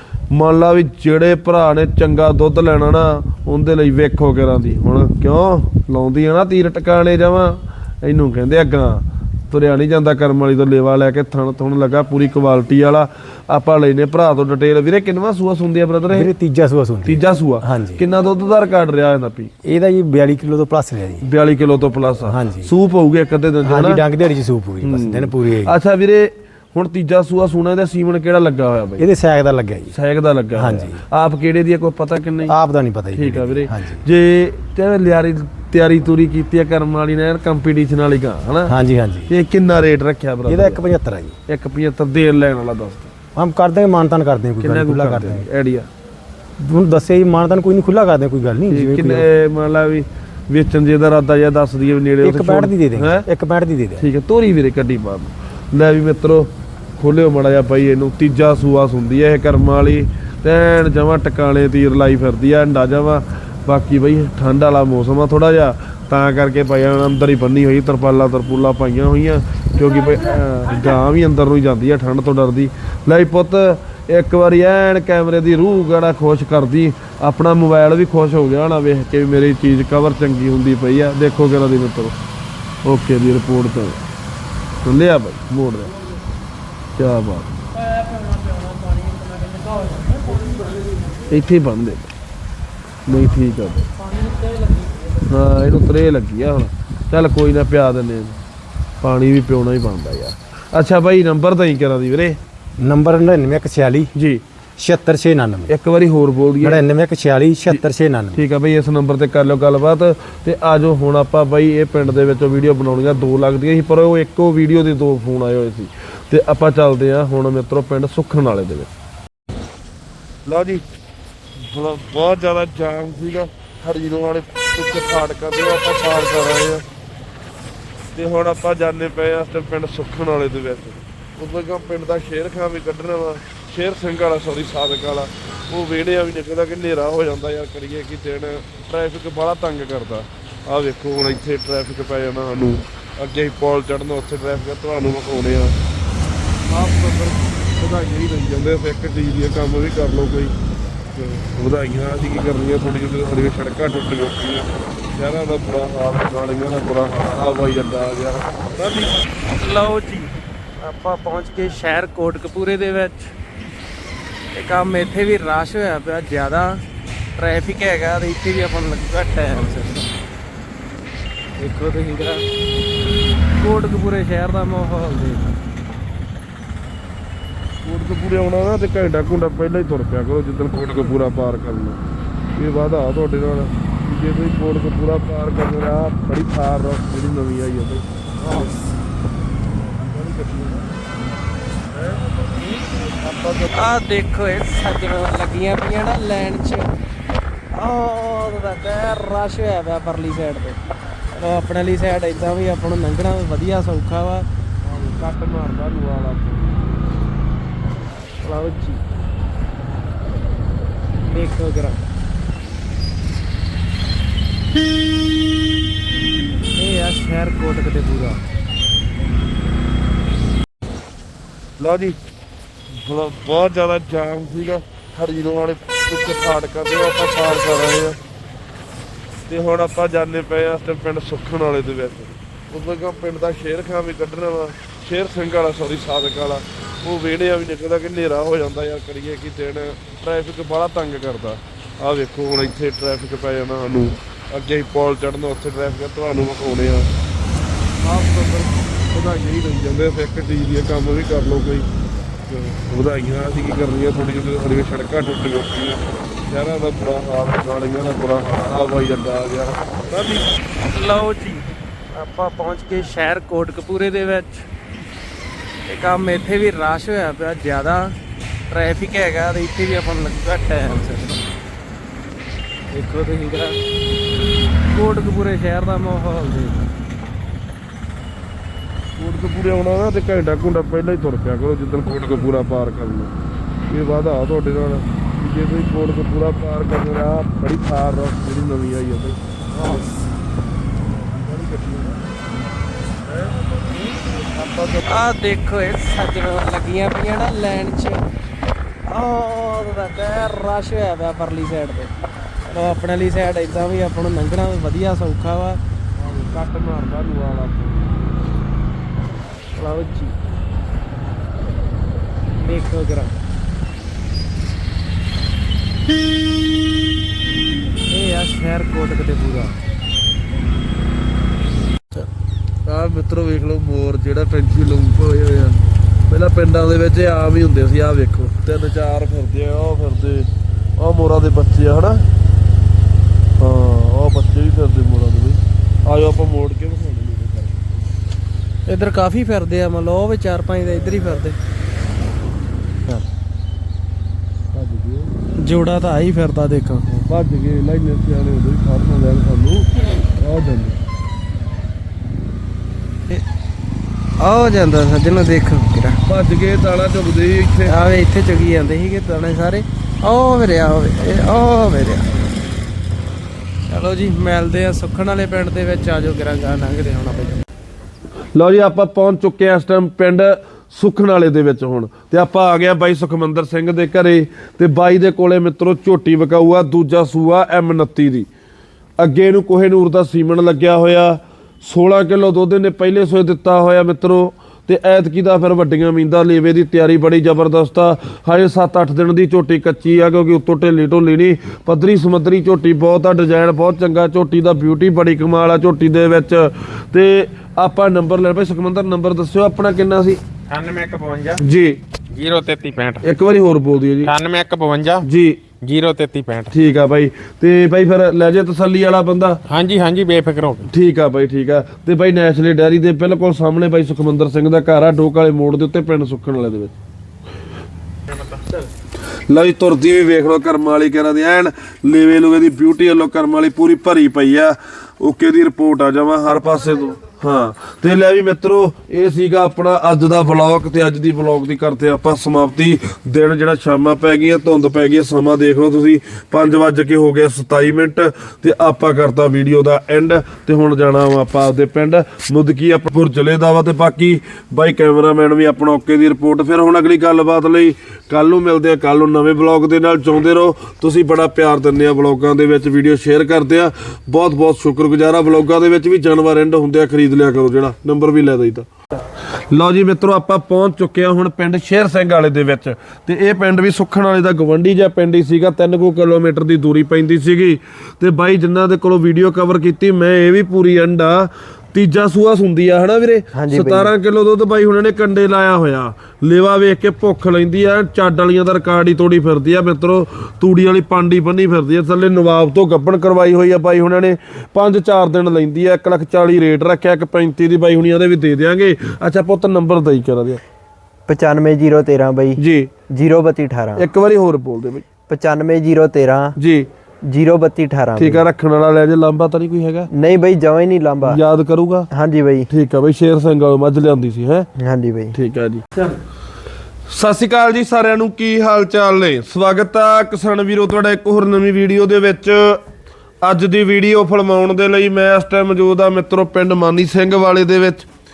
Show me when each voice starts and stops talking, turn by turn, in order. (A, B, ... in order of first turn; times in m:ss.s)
0:00.3-0:16.3 A
0:16.1-0:18.0 B
0:17.1-0:19.5 A
0:19.6-0:21.2 B
0:21.2-0:24.0 A
0:22.3-0:22.7 B
0:23.6-0:25.8 B
0:24.8-0:29.0 A
0:29.0-0:29.9 B
0:29.9-0:32.6 A
0:30.5-0:31.0 B
0:32.4-0:34.0 B
0:33.1-0:38.7 A
0:38.7-0:39.3 B
0:39.3-0:40.8 A
0:40.5-0:41.3 B
0:41.5-0:43.1 A
0:43.4-0:45.5 B
0:44.6-0:45.9 A
0:46.6-0:49.3 B
0:48.7-0:53.3 A
0:52.2-0:54.0 B
0:54.0-1:22.2 A
1:22.8-1:24.0 A
1:24.8-1:25.9 A
1:27.0-1:27.5 A
1:31.3-1:32.1 A
1:33.1-1:33.9 A
1:35.3-1:38.4 A
1:39.0-1:42.4 A
1:42.8-1:44.1 B
1:44.1-1:44.4 A
1:44.8-1:45.7 B
1:45.7-1:46.8 A
1:46.6-1:48.4 B
1:47.7-1:58.9 A
2:00.5-2:00.8 A
2:01.6-2:06.8 A
2:08.1-2:25.7 A
2:26.7-2:30.6 A
2:31.2-2:39.2 A
2:39.6-2:43.3 C
2:44.5-2:46.8 C
2:47.4-2:50.1 C
2:51.6-2:52.4 C
2:53.6-2:55.6 C
2:57.8-3:02.0 A
3:02.6-3:08.1 A
3:09.8-3:10.8 A
3:11.9-3:13.9 A
3:13.7-3:16.9 C
3:17.7-3:20.8 C
3:21.3-3:24.5 C
3:24.8-3:26.7 A
3:28.4-3:29.0 C
3:31.3-3:32.0 C
3:36.8-3:38.4 C
3:41.8-3:42.2 A
3:42.9-3:48.2 A
3:49.5-4:07.1 A
4:08.0-4:11.9 A
4:12.5-4:20.5 A
4:20.9-4:24.7 C
4:25.9-4:28.1 C
4:28.7-4:31.4 C
4:32.9-4:33.8 C
4:34.9-4:36.9 C
4:39.2-4:43.3 A
4:43.9-4:50.0 A
4:51.1-4:52.2 A
4:53.3-4:53.5 A
4:54.3-4:55.1 A
4:55.1-4:58.2 C
4:59.1-5:02.1 C
5:02.7-5:05.8 C
5:06.2-5:08.2 A
5:09.8-5:10.3 C
5:12.6-5:13.4 C
5:18.1-5:19.8 C
5:22.9-5:32.2 A
5:33.6-5:38.1 A
5:38.9-5:41.6 C
5:44.7-5:45.3 A
5:45.6-5:47.0 C
5:47.1-5:51.0 A
5:54.4-5:56.2 C
5:56.2-5:58.0 A
5:57.8-6:02.3 C
6:03.9-6:07.6 C
6:08.6-6:18.5 A
6:19.2-6:40.4 A
6:41.6-6:42.0 A
6:43.2-6:44.3 A
6:44.4-6:45.0 D
6:45.2-6:45.6 A
6:45.8-6:46.6 D
6:46.7-6:49.6 A
6:50.2-6:50.6 D
6:50.9-6:56.9 A
6:59.5-7:38.9 A
7:39.7-8:10.6 A
7:53.6-7:54.1 E
8:11.3-8:14.0 E
8:12.6-8:12.9 A
8:14.0-8:15.1 A
8:15.3-8:16.6 E
8:16.6-8:16.9 A
8:17.3-8:18.4 E
8:18.2-8:20.1 A
8:20.2-8:21.4 E
8:21.2-8:22.1 A
8:22.2-8:22.7 E
8:22.7-8:24.7 A
8:24.8-8:25.4 E
8:25.3-8:25.8 A
8:27.1-8:32.8 A
8:33.4-8:38.1 A